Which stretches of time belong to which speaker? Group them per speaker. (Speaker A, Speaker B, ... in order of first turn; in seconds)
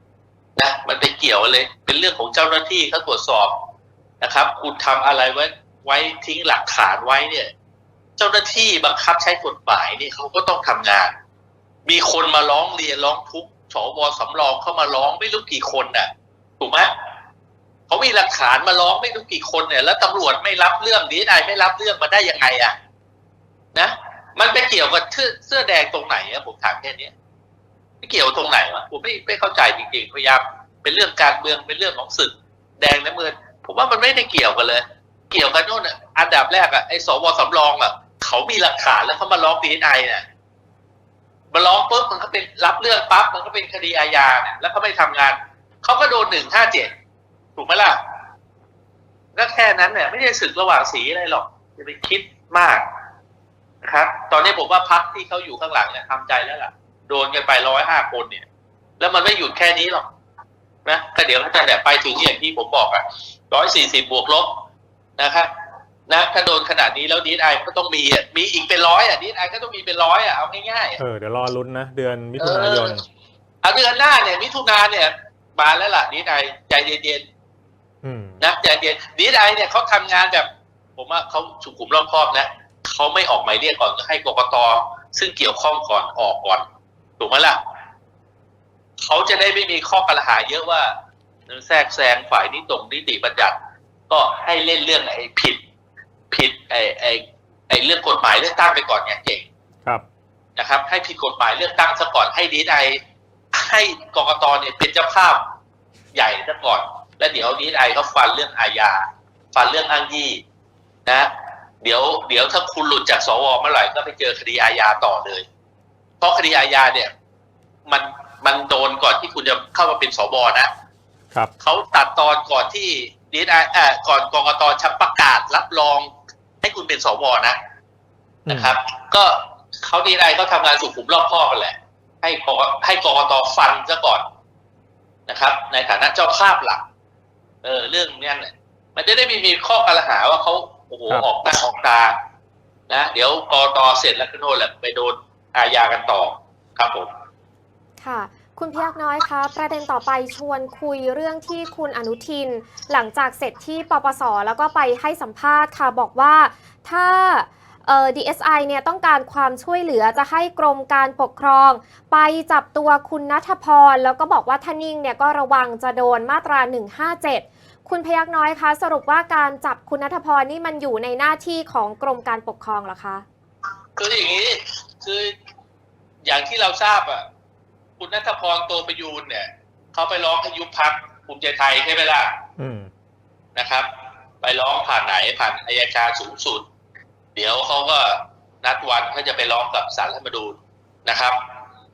Speaker A: 0.6-3.5, 4.2-7.5, 8.2-11.1, 11.8-16.9, 17.9-22.7, 23.7-27.1, 28.0-40.2, 41.5-46.9, 47.5-48.0, 49.4-52.9, 53.8-58.4, 59.0-60.1, 60.9-64.5, 65.2-65.5, 66.1-71.0, 72.4-73.0, 73.6-77.2, 78.4-86.6, 87.2-87.6, 89.0-90.9, 91.5-93.5, 94.1-95.6, 96.3-99.5, 100.6-103.0, 103.5-105.5, 106.1-110.4, 111.8-115.5, 116.2-117.1, 117.9-120.7, 121.6-126.1, 126.6-127.6, 128.5-134.2, 135.3-136.8, 137.6-142.1, 142.9-147.1, 174.0-175.3, 176.2-177.2, 178.0-182.4, 183.6-183.9, 184.4-186.7, 187.3-191.4
Speaker B: 71.0-73.0, 78.0-78.4, 128.4-128.8, 182.6-182.9
Speaker C: 148.0-173.2